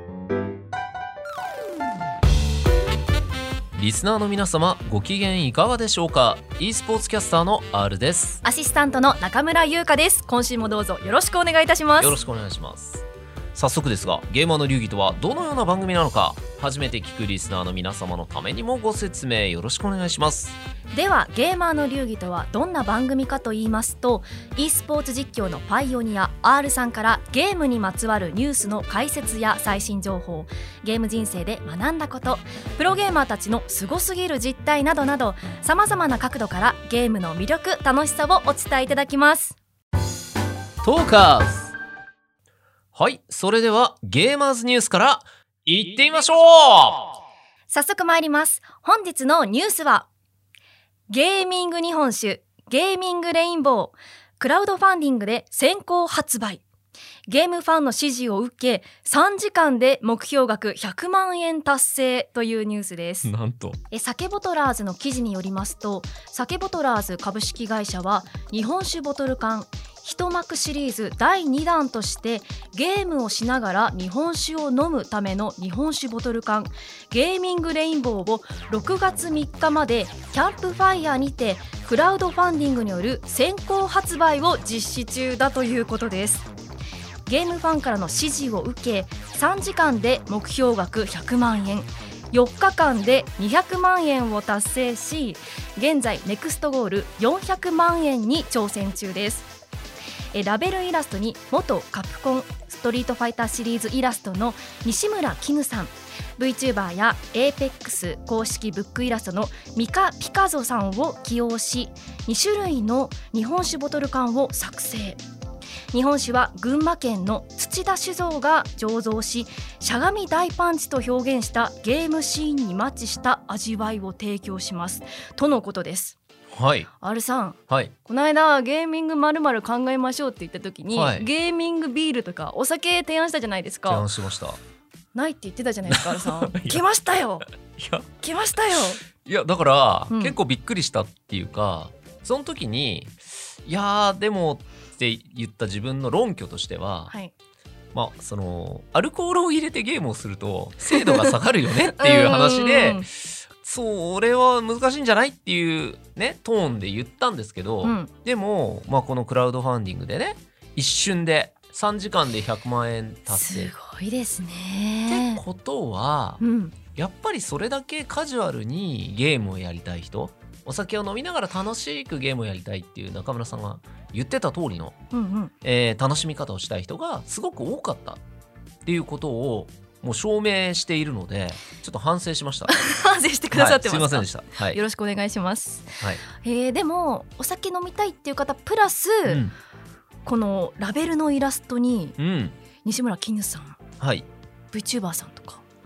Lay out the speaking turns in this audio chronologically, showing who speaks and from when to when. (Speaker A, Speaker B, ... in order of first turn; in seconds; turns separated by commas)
Speaker A: 3.7-8.4, Speaker B: 8.4-12.2, Speaker A: 12.0-20.6, Speaker B: 20.9-39.6, Speaker A: 40.8-41.7, Speaker A: 42.9-47.2, Speaker B: 47.7-50.1, Speaker B: 51.1-56.6, Speaker B: 57.3-63.3, Speaker A: 63.2-63.8, Speaker B: 63.9-86.5, Speaker B: 87.2-99.5, Speaker B: 100.3-115.2, Speaker B: 115.9-126.2, Speaker A: 126.5-126.9, Speaker B: 127.0-134.1, Speaker A: 127.7-127.9, Speaker A: 130.9-131.3, Speaker A: 133.9-134.6, Speaker B: 135.1-137.4, Speaker A: 135.9-136.8, Speaker A: 137.7-138.1, Speaker B: 138.2-139.0, Speaker A: 139.1-147.1, Speaker B: 140.1-140.4, Speaker A: 147.9-163.7, Speaker B: 150.9-151.4, Speaker B: 151.9-153.1, Speaker B: 157.8-158.1, Speaker B: 163.3-165.4, Speaker A: 165.1-166.4, Speaker B: 166.4-166.8, Speaker A: 166.9-175.0, Speaker B: 175.1-175.5, Speaker A: 175.6-178.2, Speaker A: 178.8-182.8, Speaker B: 182.7-189.4, Speaker A: 183.5-184.8, Speaker A: 189.2-189.5, Speaker B: 190.2-192.2, Speaker A: 192.2-192.6, Speaker B: 192.8-193.8, Speaker A: 194.0-194.3, Speaker B: 194.7-195.6